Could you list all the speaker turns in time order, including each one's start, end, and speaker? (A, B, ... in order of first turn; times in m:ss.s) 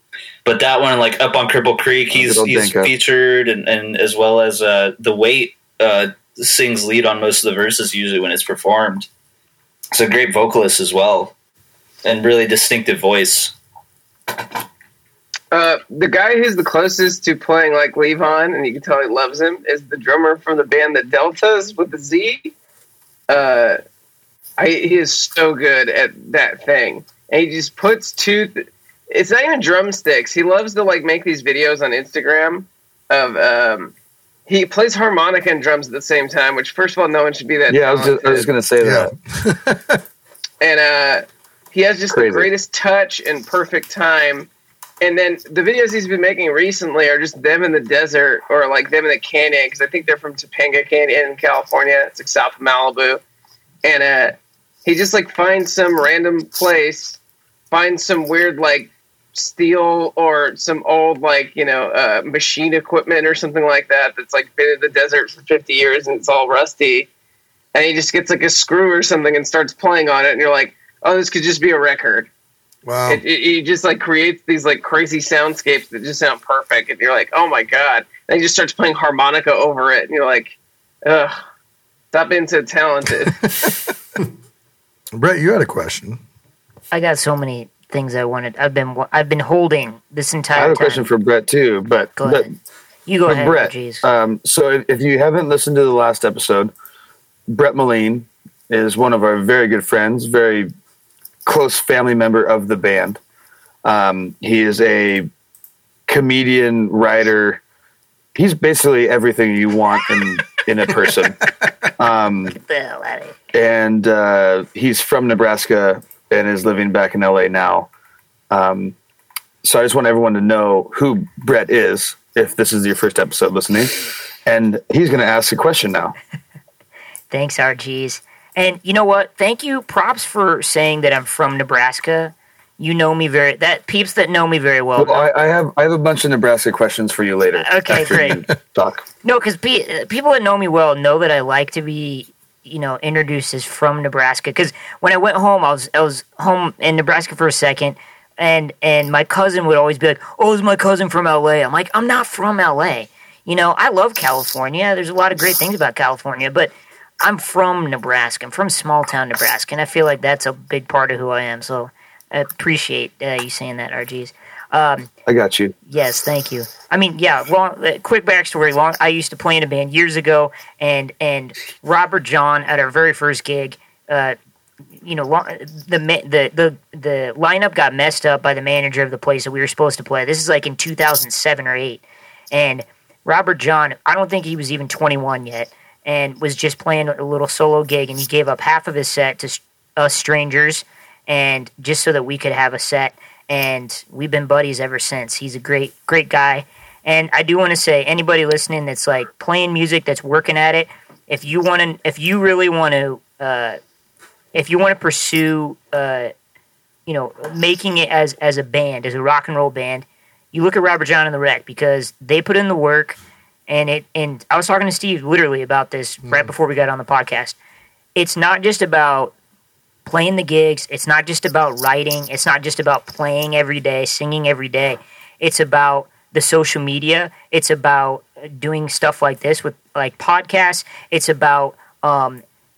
0:00.4-0:09.1 A
0:02.1-0:02.9 B
0:09.9-0:11.3 A
0:12.0-0:13.5 A
0:15.5-0:22.5 C
0:23.3-0:23.8 C
0:24.6-0:33.9 C
0:34.5-0:38.5 C
0:37.7-0:39.1 B
0:38.8-0:40.0 D
0:40.6-0:44.5 C
0:42.1-0:42.5 B
0:45.0-0:53.2 C
0:53.8-0:57.2 C
0:57.7-1:07.1 C
1:07.8-1:12.3 C
1:12.8-1:13.2 D
1:13.1-1:20.6 C
1:21.1-1:21.4 C
1:22.1-1:23.4 C
1:25.1-1:26.2 D
1:26.9-1:31.1 E
1:30.6-1:32.5 B
1:32.2-1:32.5 E
1:33.1-1:34.0 E
1:33.3-1:36.7 B
1:37.5-1:40.7 B
1:41.5-1:43.2 B
1:43.8-1:45.3 B
1:46.1-1:47.6 B
1:48.4-1:52.6 B
1:52.5-1:53.4 E
1:53.5-1:57.9 B
1:58.5-1:59.0 B
1:59.6-2:06.2 B
2:07.3-2:15.3 E
2:15.0-2:19.0 B
2:17.6-2:18.4 E
2:19.2-2:45.1 E
2:45.3-2:45.8 B
2:45.9-2:54.4 E
2:55.0-3:23.8 E
3:24.5-3:26.3 E
3:27.1-3:33.2 E
3:33.7-3:37.6 E
3:36.2-3:36.5 D
3:38.2-3:39.3 E
3:40.1-3:52.4 E